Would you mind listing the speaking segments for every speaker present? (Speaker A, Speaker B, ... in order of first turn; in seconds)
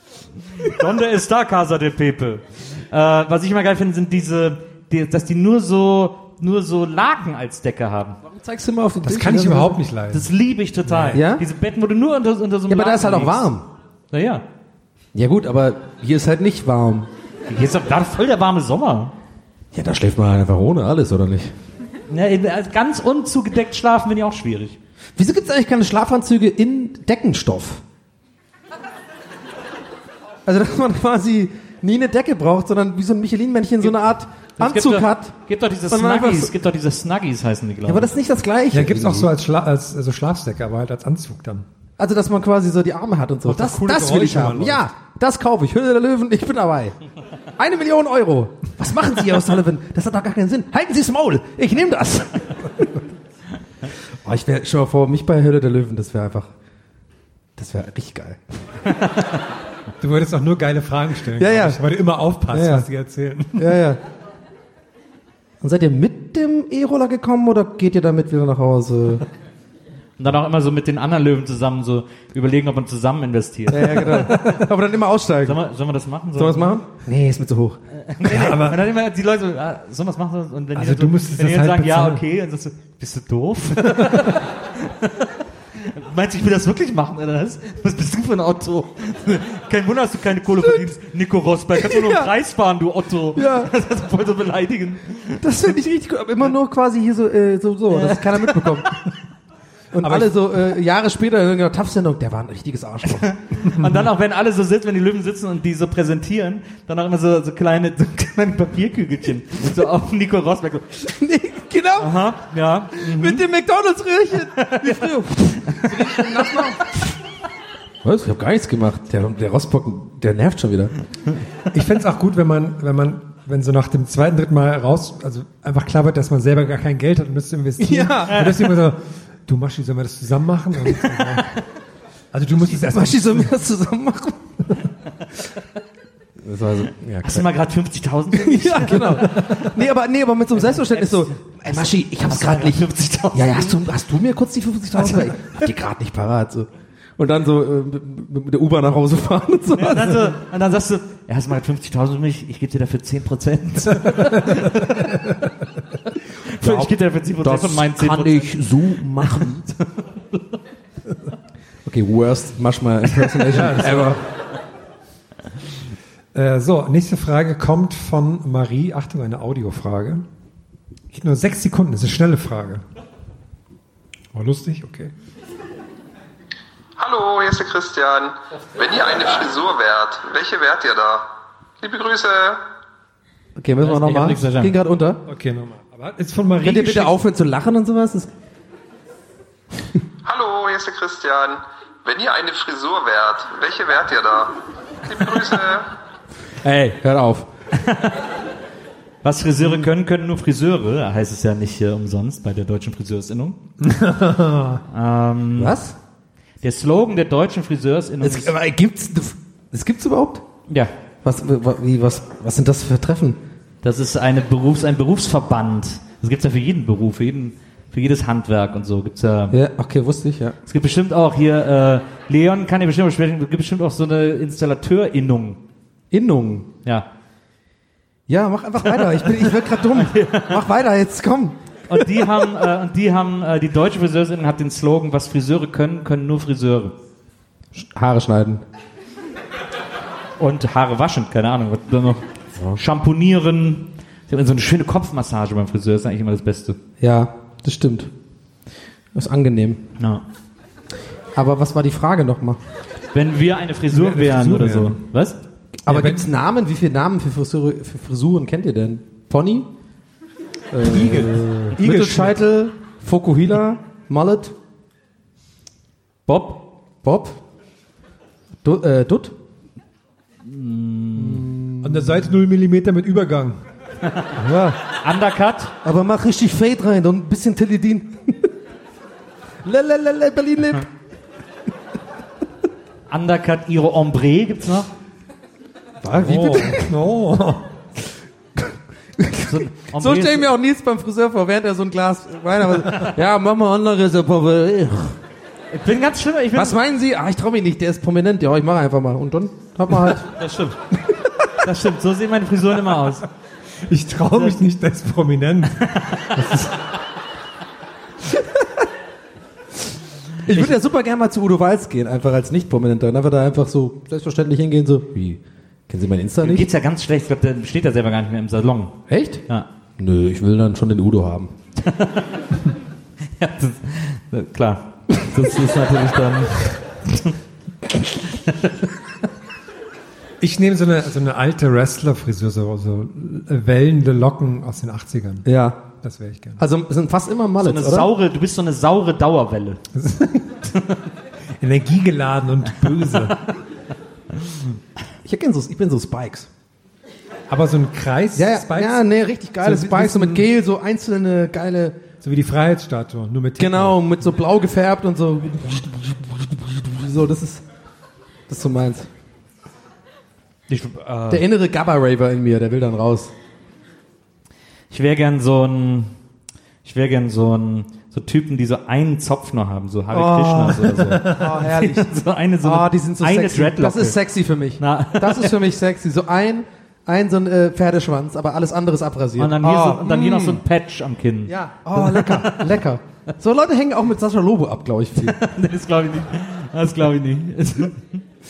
Speaker A: 0.6-8.2, 10.1-13.5, 14.1-14.4, 17.5-19.1, 22.1-24.8, 34.6-38.1, 70.2-74.5, 75.4-76.7, 78.0-95.4, 97.9-98.9, 103.2-110.9, 112.0-113.4, 114.6-115.0, 115.8-116.3, 137.2-139.7, 140.6-143.8, 145.0-145.5, 149.7-154.9, 156.5-160.4, 183.8-184.8, 197.7-198.1, 199.2-203.6, 204.9-205.8, 206.6-208.5, 213.8-219.6, 220.7-225.6, 228.9-230.6, 231.9-236.9, 240.4-242.2, 242.7-246.8, 253.1-255.4, 260.8-262.4, 266.3-266.5, 270.4-271.5, 274.0-274.3, 275.0-275.7, 283.1-284.9, 289.5-290.5, 295.7-296.8, 300.2-300.8, 301.6-303.3, 305.9-306.3, 316.4-319.7, 321.8-322.3, 323.4-327.3, 337.6-339.8, 360.7-361.4, 364.9-366.1, 366.8-374.2, 374.8-375.6, 379.4-382.7, 385.2-388.2
Speaker B: 8.2-9.8, 11.1-11.4, 12.7-13.6, 15.1-17.1, 19.7-21.5, 25.2-27.8, 30.4-35.3, 35.9-36.5, 37.9-39.3, 42.0-47.0, 47.6-53.0, 54.2-56.5, 57.6-59.0, 61.4-61.8, 62.5-62.8, 63.6-64.0, 65.6-69.2, 73.7-75.6, 76.3-77.8, 91.8-92.3, 93.3-93.7, 95.4-99.0, 99.9-103.4, 111.0-112.2, 113.0-117.1, 118.0-120.9, 127.8-128.7, 132.6-134.4, 136.4-137.5, 138.3-150.3, 156.5-159.6, 161.8-164.2, 183.6-185.2, 186.6-188.3, 196.6-197.5, 205.6-205.9, 208.2-210.4, 211.2-213.4, 219.5-220.6, 226.1-226.7, 228.3-231.6, 232.1-232.4, 237.7-238.6, 247.0-248.1, 249.1-249.8, 251.3-252.6, 255.8-259.7, 260.7-264.5, 267.0-267.4, 268.6-269.3, 271.1-272.2, 274.4-274.8, 275.8-278.5, 279.6-280.9, 286.0-286.9, 288.6-295.1, 296.5-300.3, 310.4-316.7, 319.1-319.4, 320.0-321.5, 335.4-335.8, 336.6-338.1, 345.2-346.5, 348.4-352.0, 353.6-357.6, 358.5-359.1, 361.3-363.3, 370.1-380.6, 381.5-385.4
Speaker C: 9.0-10.3, 10.8-11.2, 38.7-41.6, 43.4-44.9, 60.0-63.8, 78.2-78.8, 80.7-82.2, 100.0-100.4, 121.7-131.5, 132.3-133.5, 154.1-154.7, 163.5-164.2, 166.3-170.2, 171.1-172.8, 174.3-175.1, 185.2-187.2, 203.8-204.8, 253.9-255.0, 255.9-256.3, 271.8-273.6, 286.1-287.7, 303.9-306.7, 330.4-336.6, 339.9-340.7, 341.6-343.4, 347.5-349.1, 349.6-350.5, 352.2-354.0, 370.7-371.5
Speaker D: 177.0-178.3, 179.1-181.2, 181.8-182.6, 190.3-194.3, 195.1-195.8